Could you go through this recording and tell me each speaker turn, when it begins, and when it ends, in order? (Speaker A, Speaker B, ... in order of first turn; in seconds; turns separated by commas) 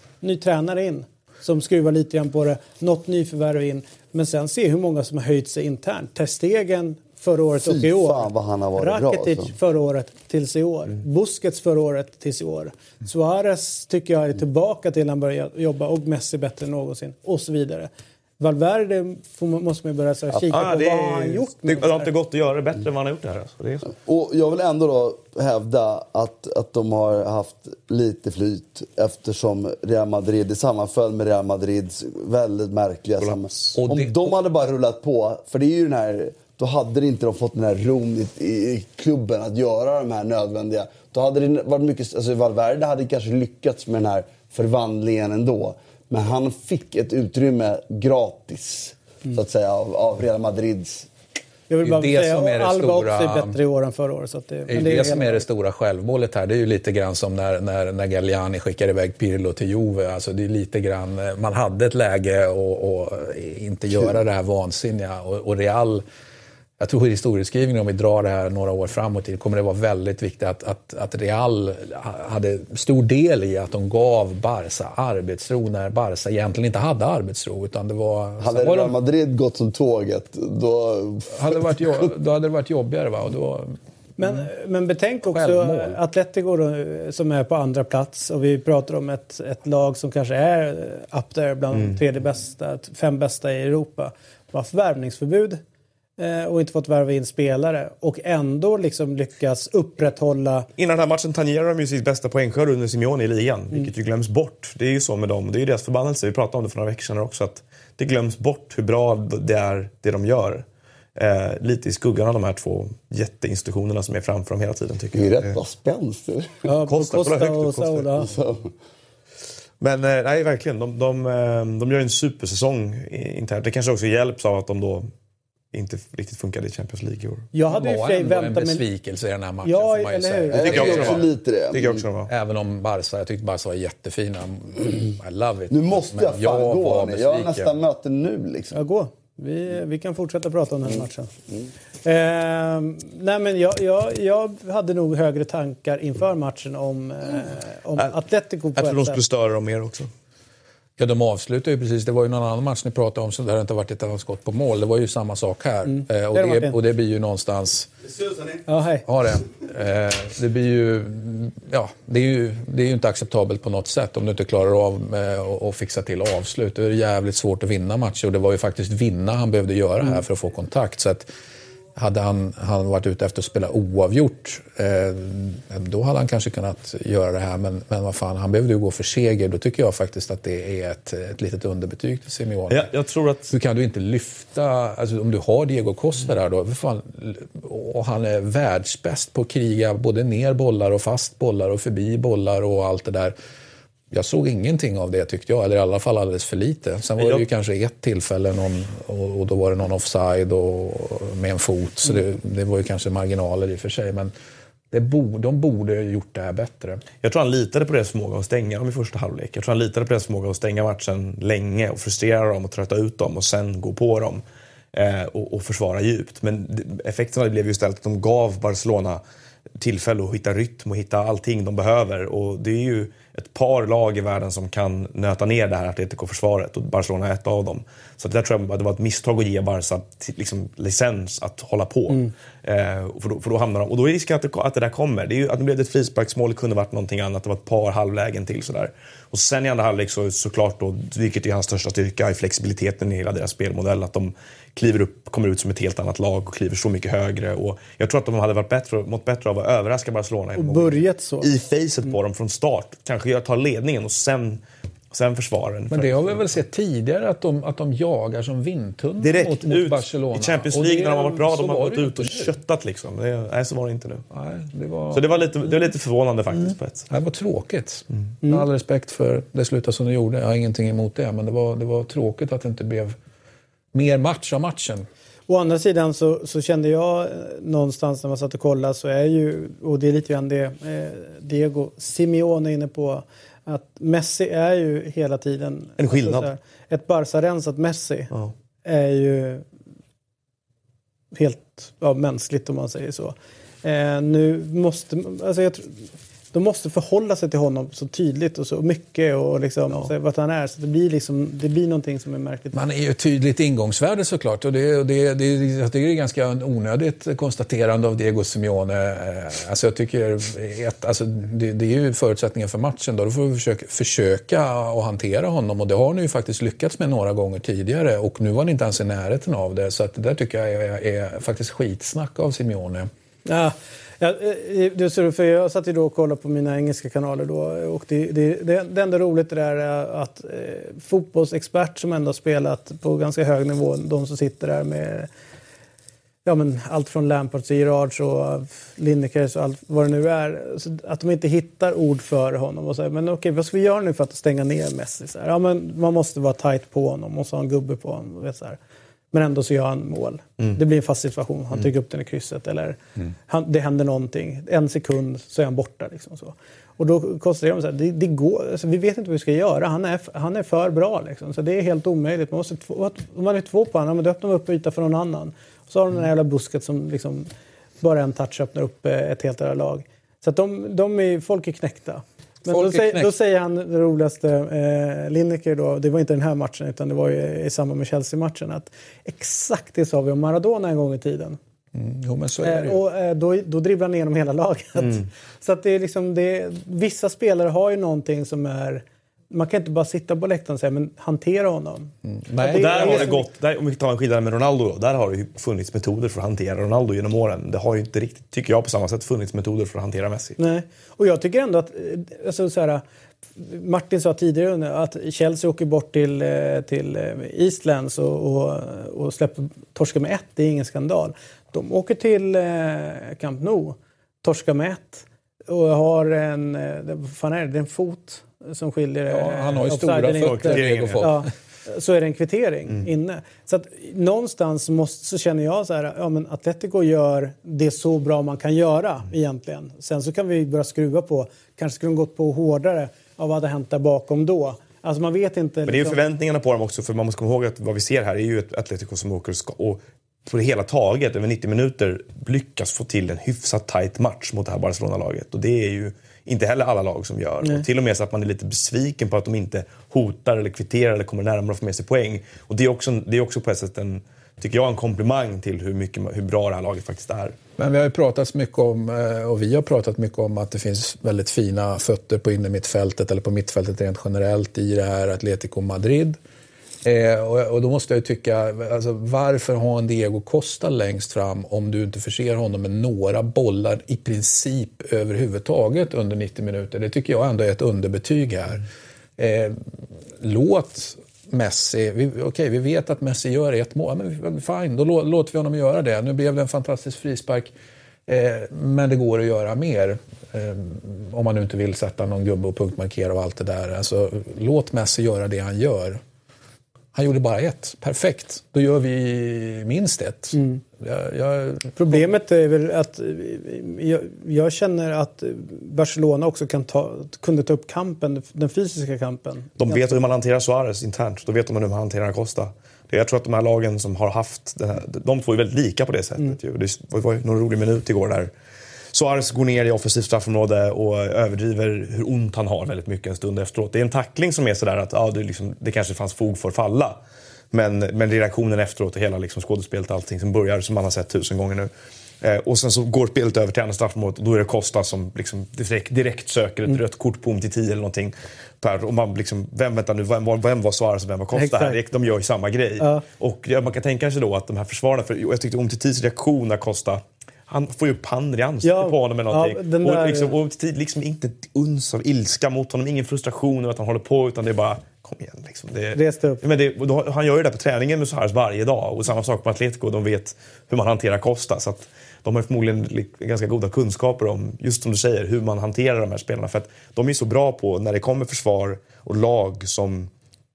Speaker A: 0.2-22.1, Speaker B: 7.6-9.5, Speaker C: 20.5-23.9, Speaker B: 24.0-51.1, Speaker C: 33.2-33.8, Speaker D: 33.7-34.4, Speaker A: 51.7-55.4, Speaker D: 51.8-53.6, Speaker D: 54.7-66.0, Speaker D: 66.8-78.9, Speaker B: 78.4-82.1, Speaker D: 81.3-84.5, Speaker A: 84.2-95.6, Speaker D: 85.2-86.0, Speaker A: 96.2-100.7, Speaker C: 100.8-110.6, Speaker C: 111.2-115.6, Speaker B: 115.1-116.7, Speaker A: 116.7-118.3, Speaker C: 116.9-118.1, Speaker B: 118.2-118.7, Speaker C: 119.8-125.1, Speaker C: 125.7-127.5, Speaker A: 127.5-128.8, Speaker D: 127.7-131.2, Speaker A: 129.6-130.7, Speaker B: 130.5-132.0, Speaker C: 130.5-132.3, Speaker D: 132.3-137.8, Speaker B: 135.7-138.7, Speaker A: 138.7-141.3, Speaker B: 140.9-141.7, Speaker A: 142.0-149.2, Speaker C: 148.8-150.1, Speaker D: 151.0-157.9, Speaker A: 155.8-156.8, Speaker A: 158.7-159.0, Speaker D: 159.1-171.3, Speaker D: 171.9-182.9, Speaker C: 182.7-183.5, Speaker D: 183.5-193.3, Speaker D: 194.1-204.3, Speaker C: 197.2-197.4, Speaker D: 204.9-207.0, Speaker C: 207.2-214.4, Speaker C: 214.9-219.2, Speaker C: 219.8-256.6, Speaker A: 250.6-251.5, Speaker D: 255.9-262.5, Speaker C: 259.2-264.2, Speaker D: 264.3-265.3, Speaker C: 265.1-267.1, Speaker D: 266.7-273.1, Speaker A: 268.4-268.7, Speaker D: 273.9-275.1, Speaker A: 275.5-288.3, Speaker C: 286.0-286.5, Speaker A: 288.8-289.6, Speaker A: 291.3-302.8, Speaker D: 302.7-323.1, Speaker A: 323.4-335.3, Speaker A: 336.4-348.8, Speaker A: 349.3-367.5, Speaker A: 368.0-381.6, Speaker D: 372.7-373.3, Speaker D: 381.9-383.0, Speaker A: 382.6-393.5, Speaker C: 385.0-385.2, Speaker D: 392.2-393.3, Speaker C: 392.7-400.6, Speaker A: 400.6-403.0, Speaker A: 403.6-436.2, Speaker D: 419.3-421.4, Speaker C: 420.4-421.4, Speaker C: 435.9-457.6, Speaker D: 457.8-466.4, Speaker D: 467.0-478.8, Speaker D: 479.4-479.9, Speaker D: 480.4-487.7, Speaker D: 488.3-496.2, Speaker D: 497.1-502.3, Speaker A: 500.5-500.8, Speaker A: 501.9-510.2, Speaker C: 509.8-518.5, Speaker C: 519.1-527.2, Speaker C: 527.7-531.9, Speaker C: 532.4-570.3, Speaker A: 541.5-542.0, Speaker A: 548.8-550.5, Speaker A: 556.1-556.6